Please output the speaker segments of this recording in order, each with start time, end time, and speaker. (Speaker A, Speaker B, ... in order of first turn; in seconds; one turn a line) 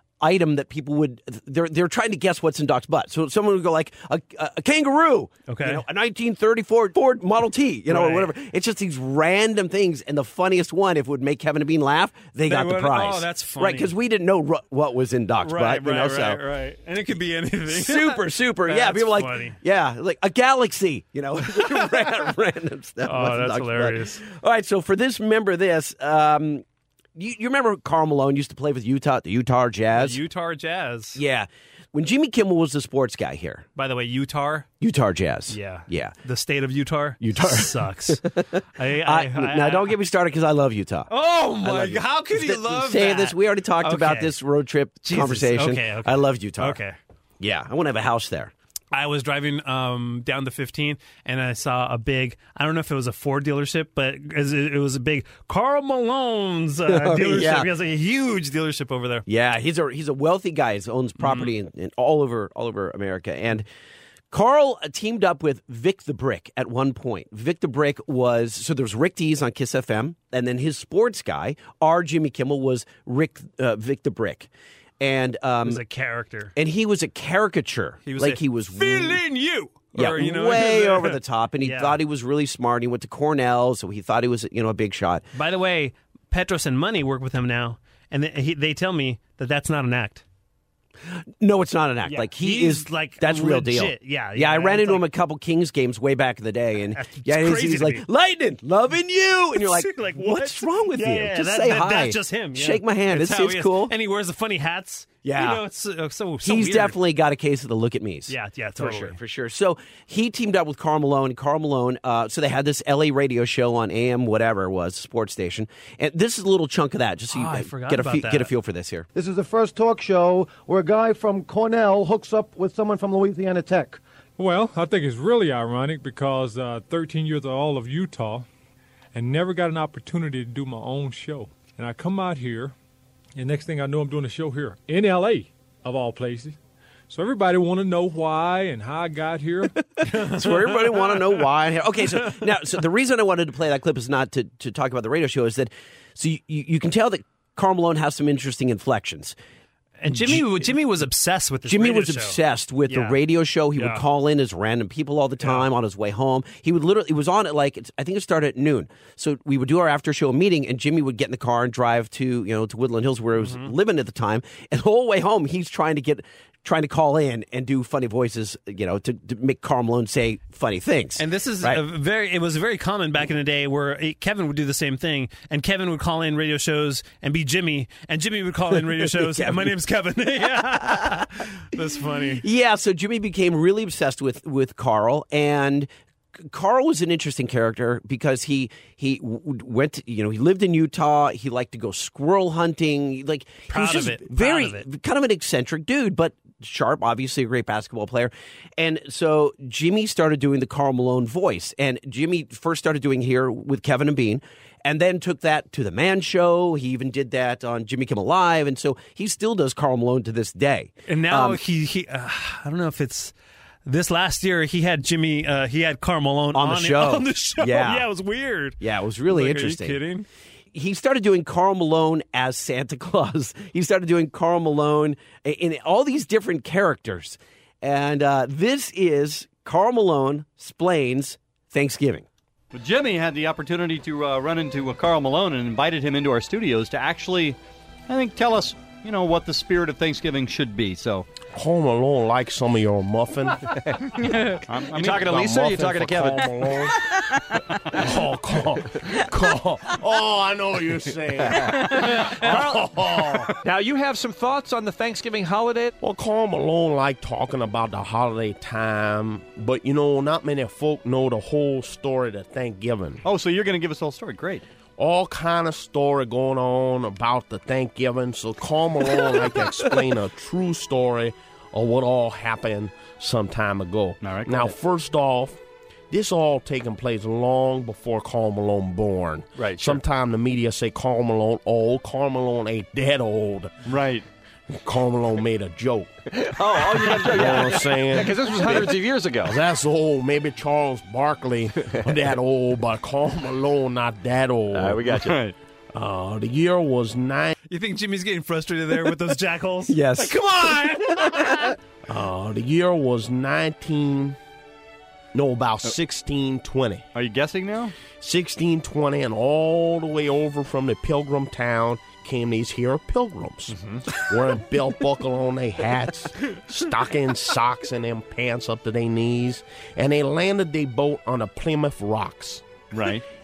Speaker A: 0.2-16.4
Speaker B: 5.5-5.8
Speaker B: 7.9-8.3
Speaker B: 12.5-13.9
Speaker B: 15.4-19.6
Speaker A: 17.7-26.6
Speaker B: 23.0-24.2
Speaker A: 27.1-30.2
Speaker B: 29.9-31.2
Speaker A: 31.1-33.6
Speaker B: 33.8-34.7
Speaker A: 34.8-36.1
Speaker B: 35.5-39.9
Speaker A: 37.2-41.1
Speaker B: 41.1-44.3
Speaker A: 41.6-46.8
Speaker B: 45.0-47.0
Speaker A: 47.4-48.5
Speaker B: 48.9-59.2
Speaker A: 56.9-57.7
Speaker A: 59.3-63.6
Speaker B: 61.2-61.5
Speaker A: 64.3-74.5
Speaker A: 75.0-75.8
Speaker B: 75.6-76.5
Speaker A: 76.5-79.2
Speaker B: 78.0-82.0
Speaker A: 79.9-85.2
Speaker B: 85.3-90.2
Speaker A: 91.4-103.9
Speaker B: 92.0-95.0
Speaker B: 96.9-98.0
Speaker B: 99.5-107.0
Speaker A: 105.2-105.6
Speaker A: 106.4-119.1
Speaker B: 108.3-109.2
Speaker B: 117.3-118.5
Speaker C: 119.2-124.0
Speaker D: 124.4-128.5
Speaker D: 129.1-132.7
Speaker D: 133.3-136.6
Speaker D: 137.1-139.7
Speaker A: 140.0-149.3
Speaker B: 140.1-141.5
Speaker B: 142.1-142.4
Speaker B: 150.0-152.4
Speaker A: 150.1-150.6
Speaker A: 151.7-171.8
Speaker B: 152.9-153.2
Speaker B: 153.8-154.0
Speaker B: 155.4-155.7
Speaker B: 163.4-163.7
Speaker B: 171.2-182.4
Speaker A: 179.0-179.6
Speaker A: 180.5-181.2
Speaker A: 182.4-185.9
Speaker A: 186.5-211.6
Speaker B: 193.7-194.8
Speaker B: 211.1-213.3
Speaker B: 213.8-220.2
Speaker A: 216.5-218.1
Speaker A: 218.8-220.0
Speaker A: 220.7-232.3
Speaker E: 232.7-237.6
Speaker E: 238.1-241.2
Speaker F: 241.5-243.7
Speaker E: 244.7-245.8
Speaker F: 244.9-247.1
Speaker F: 247.9-253.5
Speaker G: 252.4-252.9
Speaker G: 253.6-255.9
Speaker F: 256.0-263.2
Speaker E: 263.2-264.6
Speaker F: 265.0-275.6
Speaker E: 274.2-274.7
Speaker F: 276.1-283.7
Speaker E: 279.6-280.0
Speaker E: 283.9-284.2
Speaker F: 284.8-286.1
Speaker E: 286.6-288.0
Speaker F: 286.7-295.2
Speaker E: 295.1-295.5
Speaker F: 295.9-297.5
Speaker B: 297.7-301.7
Speaker A: 299.9-301.7
Speaker F: 302.1-304.4
Speaker F: 305.3-307.1
Speaker E: 307.1-307.9
Speaker F: 308.2-322.6
Speaker E: 322.9-323.2